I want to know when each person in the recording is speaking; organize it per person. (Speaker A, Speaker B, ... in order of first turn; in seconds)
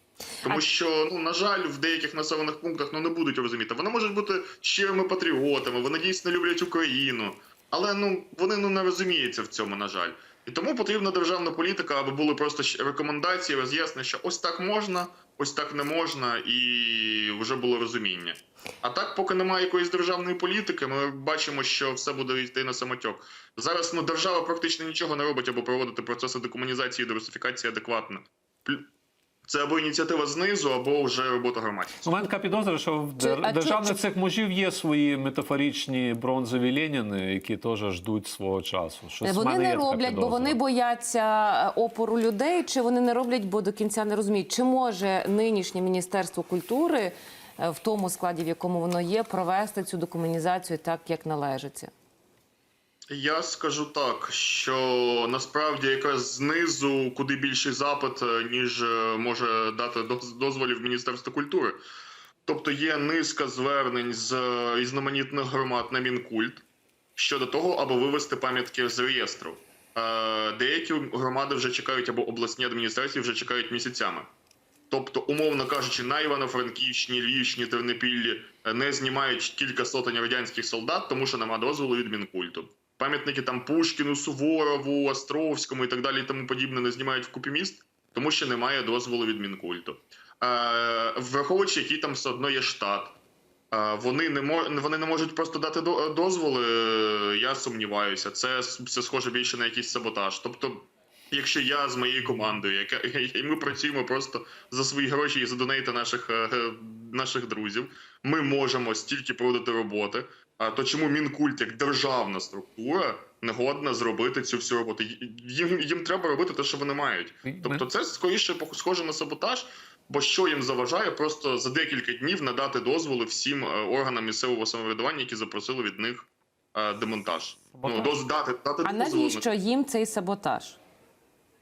Speaker A: 0.4-28.9, 29.5-32.1, 53.1-61.8, 62.5-66.6, 67.2-74.3, 74.9-93.2, 93.7-129.5
Speaker B: 32.0-40.6, 117.5-117.8, 127.8-128.1
Speaker C: 33.2-34.0, 39.2-51.9, 128.8-130.8